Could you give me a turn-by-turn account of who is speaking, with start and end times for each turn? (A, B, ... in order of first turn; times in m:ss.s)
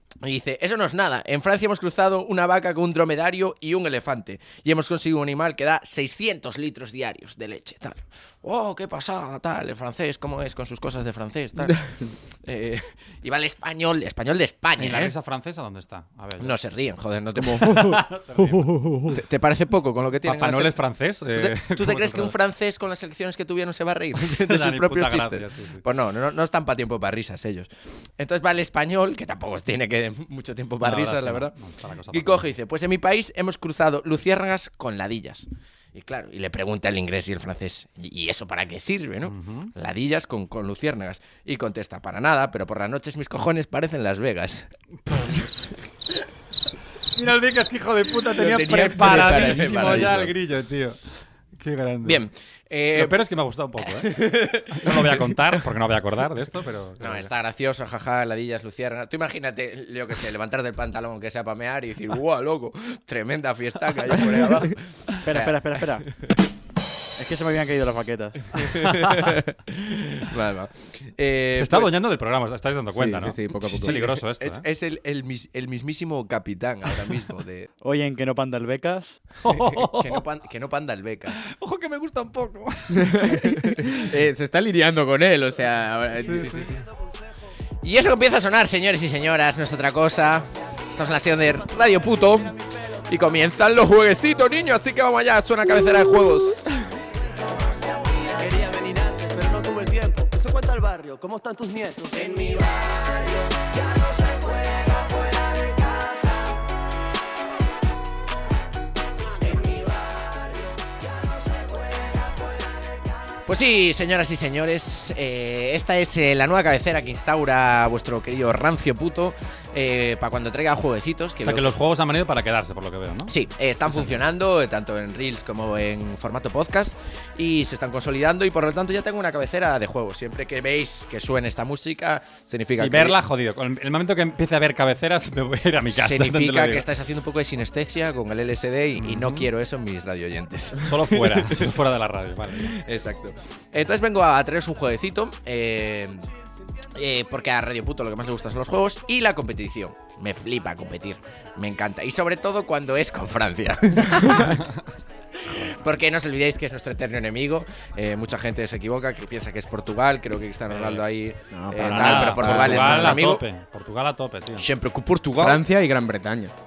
0:00.2-0:15.1 A
0:14.8-0:16.6 B
0:16.4-0:18.0 A
0:17.6-0:18.8 B
0:17.6-0:19.2 C
0:19.1-0:31.5 A
0:20.2-0:22.3 B
0:24.2-0:25.8 B
0:30.8-0:32.5 B
0:32.1-0:44.7 A
0:39.3-0:39.7 B
0:45.1-0:45.5 B
0:45.2-0:45.5 A
0:47.1-0:52.2 B
0:48.2-0:50.3 A
0:48.4-0:50.3 C
0:52.0-0:53.2 A
0:52.9-0:57.3 B
0:53.8-0:55.6 A
0:57.0-1:06.0 A
1:05.2-1:06.1 D
1:07.2-1:08.8 D
1:08.6-1:12.0 A
1:08.9-1:09.3 B
1:11.5-1:14.6 B
1:12.9-1:14.1 C
1:13.8-1:17.7 A
1:17.8-1:19.2 D
1:19.4-1:20.2 B
1:19.5-1:21.4 A
1:21.4-1:23.8 B
1:22.9-1:26.6 C
1:26.2-1:26.7 B
1:26.2-1:26.8 A
1:27.8-1:36.7 A
1:37.4-1:46.5 E
1:49.4-1:52.4 E
1:53.4-2:01.7 A
2:01.4-2:03.3 B
2:03.3-2:13.2 A
2:03.9-2:04.2 B
2:12.8-2:16.9 B
2:15.8-2:21.7 A
2:19.0-2:19.5 B
2:20.8-2:22.8 B
2:22.6-2:26.3 A
2:26.9-2:34.6 A
2:34.4-2:34.8 B
2:35.4-2:43.4 A
2:40.7-2:41.0 B
2:41.5-2:43.2 C
2:41.8-2:44.7 B
2:44.6-2:45.6 A
2:45.4-2:46.5 C